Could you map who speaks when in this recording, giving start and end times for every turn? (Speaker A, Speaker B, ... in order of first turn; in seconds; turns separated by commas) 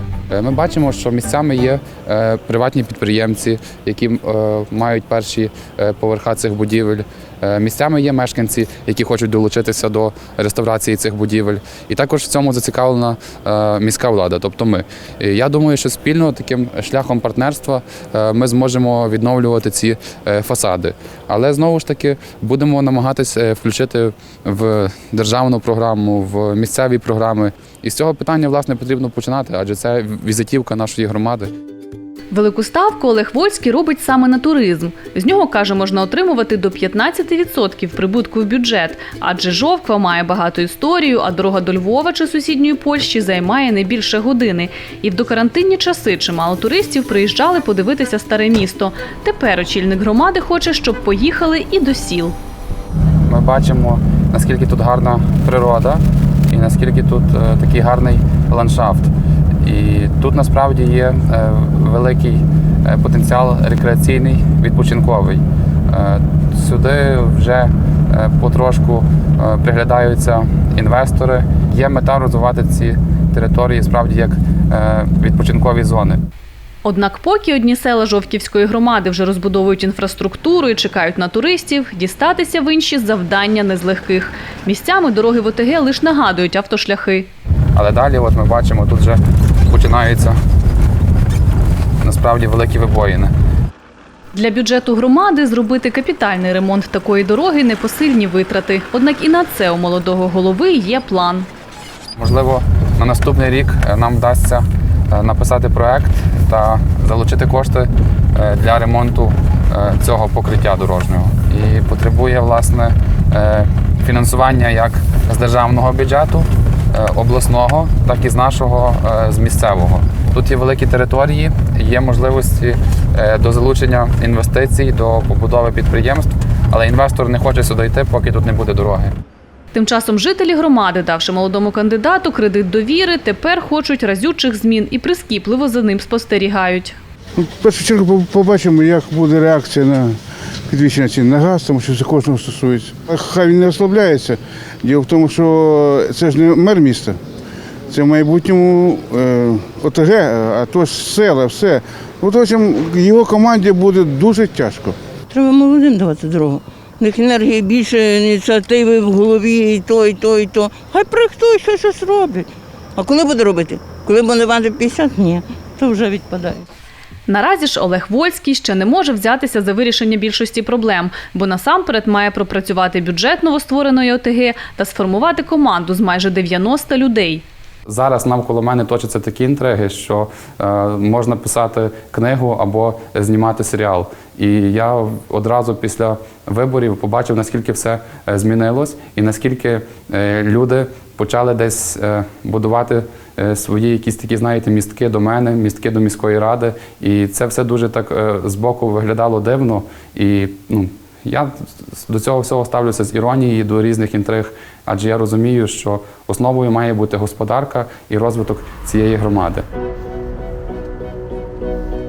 Speaker A: 0.3-31.5, Speaker B: 32.3-52.3, Speaker A: 53.2-59.1, Speaker A: 59.6-76.2, Speaker B: 76.8-87.3, Speaker A: 87.7-90.3, Speaker A: 92.0-93.3, Speaker B: 94.3-101.5, Speaker A: 102.2-129.1, Speaker B: 129.7-136.9, Speaker C: 137.4-140.2, Speaker C: 140.7-147.2, Speaker C: 147.9-154.9, Speaker D: 155.3-162.5, Speaker D: 163.0-166.4, Speaker B: 167.3-177.4, Speaker A: 177.8-209.6